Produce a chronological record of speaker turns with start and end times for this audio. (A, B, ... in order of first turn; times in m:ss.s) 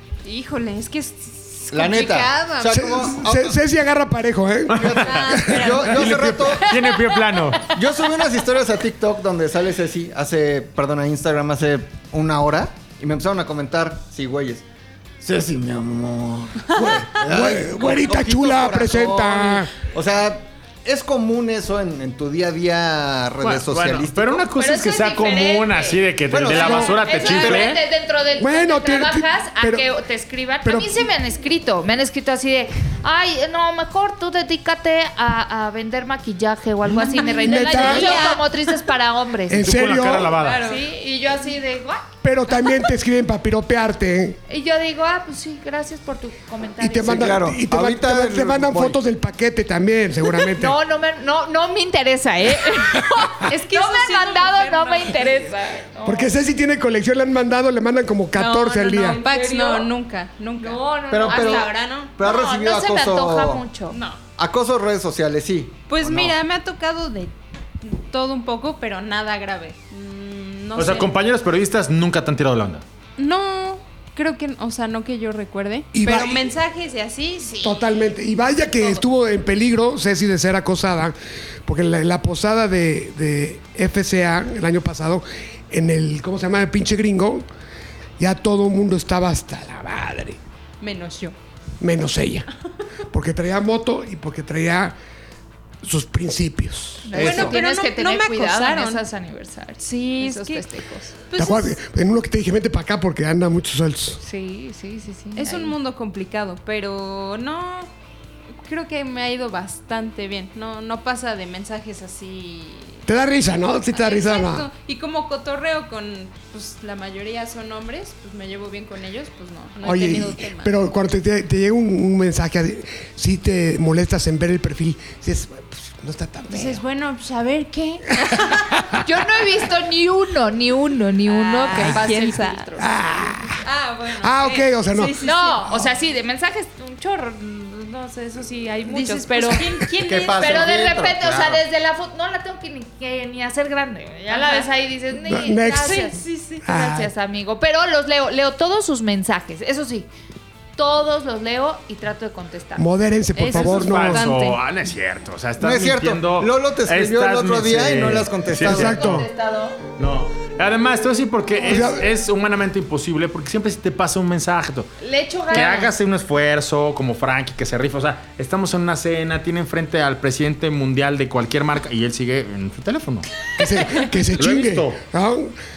0:00.2-0:03.0 A
0:01.7-0:03.6 B
0:02.7-0:05.6 C
0:04.7-0:05.3 D
0:04.7-0:06.7 B
0:05.0-0:06.0 A
0:05.9-0:07.6 D
0:07.7-0:14.6 B
0:15.2-0:24.5 B
0:16.8-0:19.7 C
0:23.4-0:27.8 D
0:24.6-0:39.7 E
0:26.3-0:27.8 B
0:28.4-0:29.9 C
0:30.6-0:31.1 C
0:36.9-0:38.4 A
0:37.4-0:38.3 C
0:39.5-0:40.4 C
0:39.6-0:40.6 D
0:40.4-0:40.9 A
0:40.6-0:42.1 E
0:42.2-0:44.4 C
0:44.5-0:47.4 E
0:46.8-0:50.8 C
0:47.0-0:49.0 B
0:50.5-0:56.3 E
0:53.3-0:55.4 A
0:56.0-0:59.2 C
0:58.4-0:59.9 E
0:59.0-1:02.1 A
1:00.6-1:04.0 E
1:01.1-1:03.6 B
1:03.9-1:04.2 A
1:04.4-1:06.4 B
1:05.9-1:11.1 A
1:10.8-1:12.8 D
1:13.2-1:17.7 A
1:15.9-1:16.5 C
1:17.4-1:17.8 E
1:17.6-1:21.2 C
1:21.7-1:27.4 C
1:28.2-1:30.4 C
1:30.8-1:31.4 A
1:31.8-1:32.5 C
1:33.1-1:34.9 C
1:35.8-1:37.2 C
1:37.0-1:41.2 E
1:37.2-1:37.6 B
1:37.2-1:39.0 A
1:39.8-1:40.7 A
1:41.3-1:41.7 A
1:41.4-1:44.2 C
1:44.2-1:45.8 E
1:45.4-1:47.9 A
1:48.6-1:53.1 A
1:53.1-1:54.7 C
1:53.9-2:00.7 A
1:59.8-2:06.8 C
2:06.5-2:08.6 A
2:08.2-2:09.0 C
2:09.0-2:13.6 E
2:11.3-2:12.7 A
2:12.8-2:13.6 C
2:13.6-2:15.7 A
2:14.2-2:15.2 C
2:15.2-2:19.7 E
2:18.9-2:20.6 A
2:19.9-2:21.6 B
2:20.2-2:30.1 E
2:24.3-2:24.7 A
2:25.3-2:26.0 C
2:25.8-2:26.6 A
2:26.7-2:27.1 C
2:30.8-2:32.8 E
2:32.8-2:34.2 C
2:33.4-2:34.6 A
2:33.5-2:38.9 D
2:35.6-2:39.2 B
2:38.6-2:39.3 C
2:38.6-2:39.8 E
2:40.0-2:44.9 D
2:41.6-2:42.1 C
2:45.0-2:45.9 E
2:45.5-2:53.3 D
2:53.6-2:55.5 C
2:54.4-2:55.0 D